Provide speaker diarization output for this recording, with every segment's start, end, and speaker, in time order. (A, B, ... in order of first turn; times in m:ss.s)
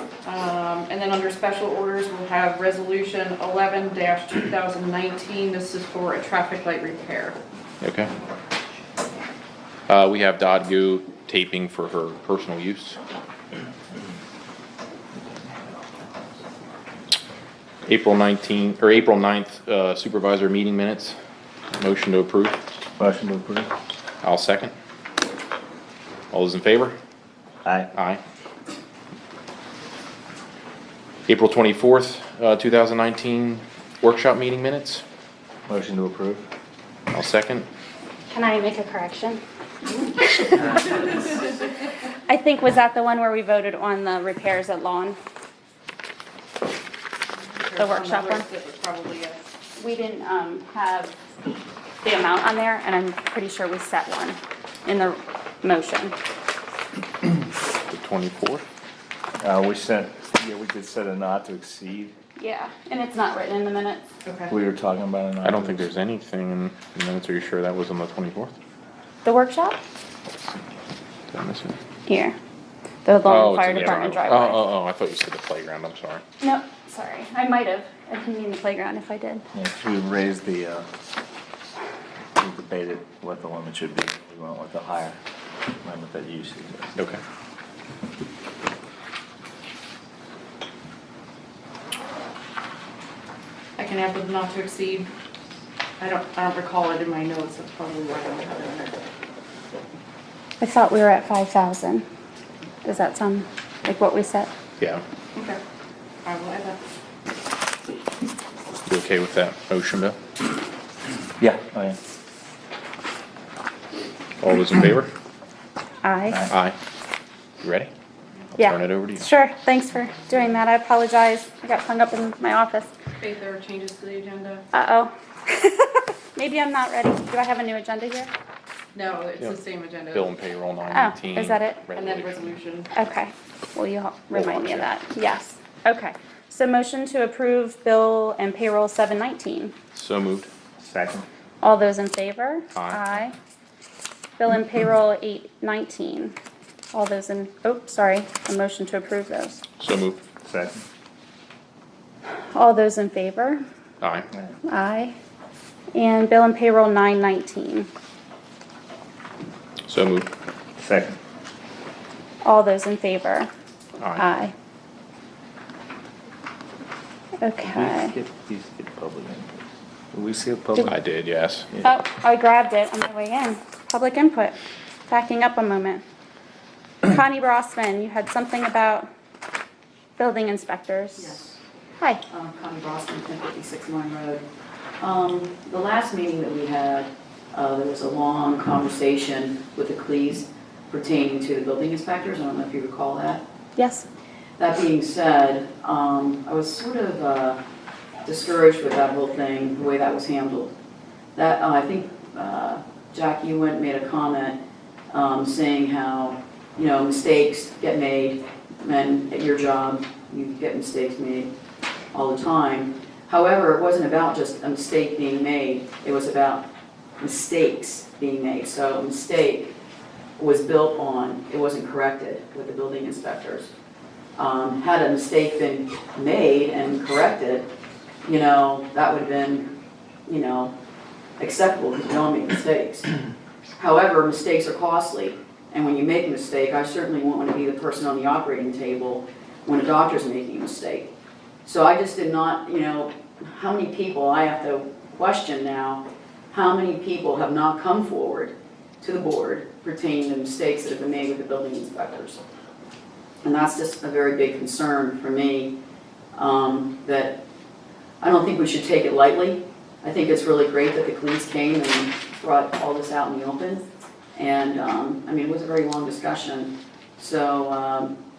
0:00.3-0:07.4 A
0:07.8-0:08.1 B
0:09.9-0:13.0 B
0:17.9-0:21.2 B
0:21.7-0:22.6 B
0:23.0-0:23.7 C
0:24.2-0:24.7 B
0:26.3-0:27.0 B
0:27.6-0:27.9 C
0:27.9-0:28.2 B
0:31.3-0:35.0 B
0:35.7-0:36.5 C
0:37.1-0:37.7 B
0:38.3-0:39.4 D
0:40.2-0:41.0 D
0:42.3-0:45.2 D
0:47.7-0:49.5 A
0:47.8-0:48.4 D
0:49.8-0:51.2 D
0:52.0-0:56.1 D
0:57.9-0:58.6 B
0:59.4-1:02.2 C
1:02.4-1:04.0 D
1:04.5-1:05.9 C
1:05.4-1:08.6 B
1:09.2-1:09.8 D
1:11.3-1:11.8 B
1:12.1-1:12.4 D
1:13.0-1:14.7 D
1:13.2-1:16.2 B
1:16.4-1:19.4 D
1:19.5-1:20.9 C
1:22.4-1:25.2 C
1:25.8-1:27.0 C
1:33.8-1:35.1 A
1:36.0-1:38.9 A
1:40.6-1:42.0 D
1:42.8-1:44.5 D
1:46.3-1:46.8 A
1:48.9-1:50.2 B
1:51.4-1:52.0 C
1:54.4-1:55.1 B
1:56.0-1:56.5 D
1:56.5-1:56.8 B
1:57.6-1:57.9 B
1:58.6-1:59.3 B
1:58.6-2:02.9 D
2:03.2-2:04.6 A
2:04.7-2:08.3 D
2:09.0-2:10.3 A
2:10.1-2:12.6 B
2:10.9-2:11.9 D
2:12.0-2:12.9 A
2:12.9-2:19.8 D
2:14.3-2:14.9 B
2:19.9-2:20.5 B
2:20.8-2:21.3 C
2:21.6-2:23.4 D
2:22.8-2:23.2 B
2:24.4-2:26.4 D
2:26.9-2:29.6 D
2:29.8-2:30.2 B
2:30.4-2:30.8 C
2:32.5-2:33.6 D
2:34.0-2:34.3 B
2:34.7-2:35.2 D
2:35.9-2:37.9 D
2:39.9-2:40.3 B
2:40.8-2:41.2 C
2:42.4-2:43.5 D
2:44.0-2:44.3 B
2:44.2-2:44.5 D
2:47.4-2:48.2 D
2:47.7-2:50.9 C
2:50.8-2:51.7 B
2:51.8-2:54.6 D
2:55.1-2:56.0 D
2:57.0-2:59.1 D
3:00.2-3:01.3 D
3:01.2-3:01.6 E
3:02.3-3:04.4 E
3:05.0-3:13.4 E
3:13.8-3:14.1 D
3:14.6-3:17.6 E
3:18.2-3:20.7 E
3:21.4-3:24.6 E
3:25.1-3:31.5 E
3:32.1-3:36.6 E
3:37.2-3:39.7 E
3:40.4-3:43.7 E
3:44.4-3:47.7 E
3:48.2-3:49.7 E
3:50.3-3:50.7 E
3:51.4-3:53.1 E
3:53.8-4:01.1 E
4:01.6-4:12.4 E
4:13.4-4:15.8 E
4:16.4-4:17.4 E
4:18.2-4:23.8 E
4:24.4-4:28.2 E